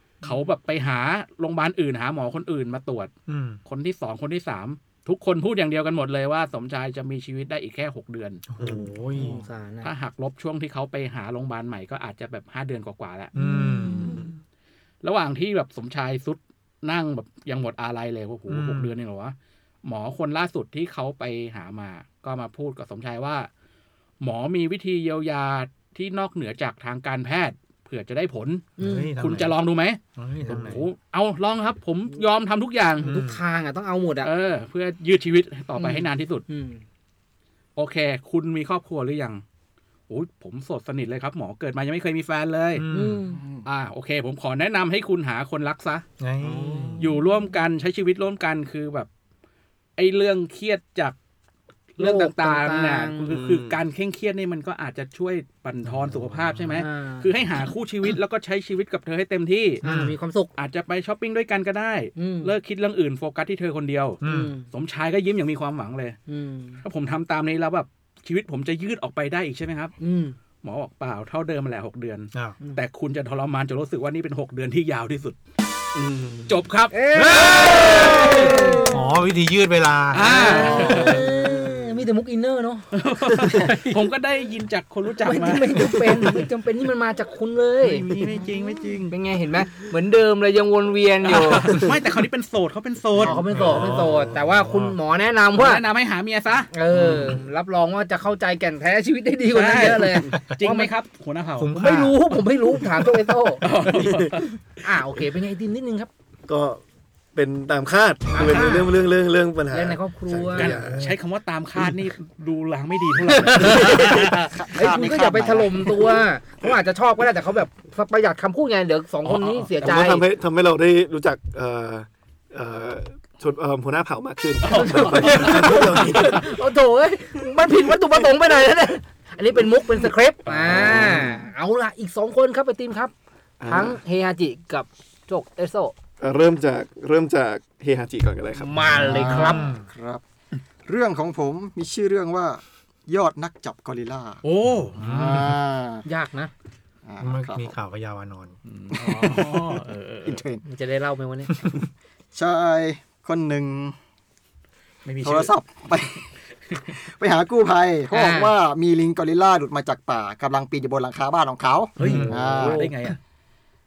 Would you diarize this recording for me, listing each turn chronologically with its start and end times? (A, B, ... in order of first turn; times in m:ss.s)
0:00.2-0:03.1 A
0:03.3-0:03.6 B
0:03.7-0:08.4 A
0:08.5-0:09.4 B
0:08.6-0:09.9 C
0:09.8-0:13.3 A
0:13.3-0:14.3 B
0:13.4-0:14.2 C
0:15.0-0:23.5 A
0:18.5-0:18.9 B
0:24.2-0:33.1 A
0:28.8-0:29.6 B
0:28.8-0:29.1 C
0:30.2-0:30.8 B
0:33.0-0:34.3 C
0:33.0-0:33.4 B
0:34.2-0:36.4 A
0:35.8-0:36.8 C
0:37.8-0:39.4 A
0:40.1-0:42.8 A
0:42.8-0:43.2 B
0:42.9-0:43.4 C
0:43.3-0:43.7 D
0:43.6-0:46.0 A
0:46.2-0:47.1 B
0:46.4-0:47.0 C
0:47.0-0:49.1 A
0:50.0-0:51.2 A
0:51.9-0:59.8 A
0:52.0-0:53.3 C
0:53.3-0:53.8 E
0:56.6-0:56.8 B
0:56.7-0:57.3 C
0:59.8-1:00.5 C
0:59.8-1:00.2 B
1:00.6-1:06.2 A
1:02.2-1:02.5 C
1:04.2-1:04.6 B
1:04.2-1:04.7 C
1:06.3-1:06.8 C
1:06.8-1:09.9 A
1:10.0-1:10.4 C
1:10.6-1:15.4 A
1:15.9-1:16.6 E
1:16.5-1:18.9 A
1:16.9-1:19.1 C
1:18.9-1:20.8 B
1:20.1-1:21.3 A
1:20.1-1:22.9 C
1:20.8-1:21.2 E
1:22.9-1:26.3 A
1:25.2-1:28.1 C
1:27.8-1:29.1 A
1:29.1-1:31.8 C
1:31.2-1:33.4 A
1:33.2-1:35.8 C
1:33.2-1:35.0 B
1:35.6-1:36.7 A
1:36.7-1:40.9 C
1:36.9-1:37.4 B
1:39.5-1:41.7 A
1:40.3-1:40.6 B
1:41.6-1:42.2 B
1:41.8-1:43.6 C
1:43.6-1:44.5 A
1:43.8-1:44.4 E
1:44.8-1:46.1 C
1:46.5-1:46.8 E
1:47.3-1:51.0 E
1:48.3-1:48.9 C
1:49.7-1:50.7 C
1:50.5-1:54.3 A
1:53.3-2:00.2 C
1:54.2-1:55.8 D
1:59.2-1:59.7 A
1:59.8-2:06.4 E
2:04.6-2:06.4 A
2:04.7-2:13.1 C
2:10.5-2:11.4 E
2:13.6-2:14.0 E
2:13.7-2:15.9 C
2:16.2-2:18.9 E
2:18.6-2:19.7 C
2:18.9-2:19.9 B
2:19.0-2:19.5 A
2:19.4-2:20.2 D
2:20.9-2:24.4 D
2:24.4-2:25.5 A
2:25.0-2:25.5 B
2:25.1-2:26.0 D
2:26.0-2:26.5 C
2:27.0-2:27.7 D
2:27.2-2:28.5 B
2:28.7-2:30.4 A
2:28.9-2:30.6 D
2:30.6-2:31.6 C
2:32.3-2:34.0 D
2:35.0-2:36.1 A
2:35.2-2:36.2 D
2:36.7-2:37.0 A
2:36.9-2:42.9 D
2:38.1-2:38.6 C
2:42.0-2:43.2 A
2:42.0-2:42.4 B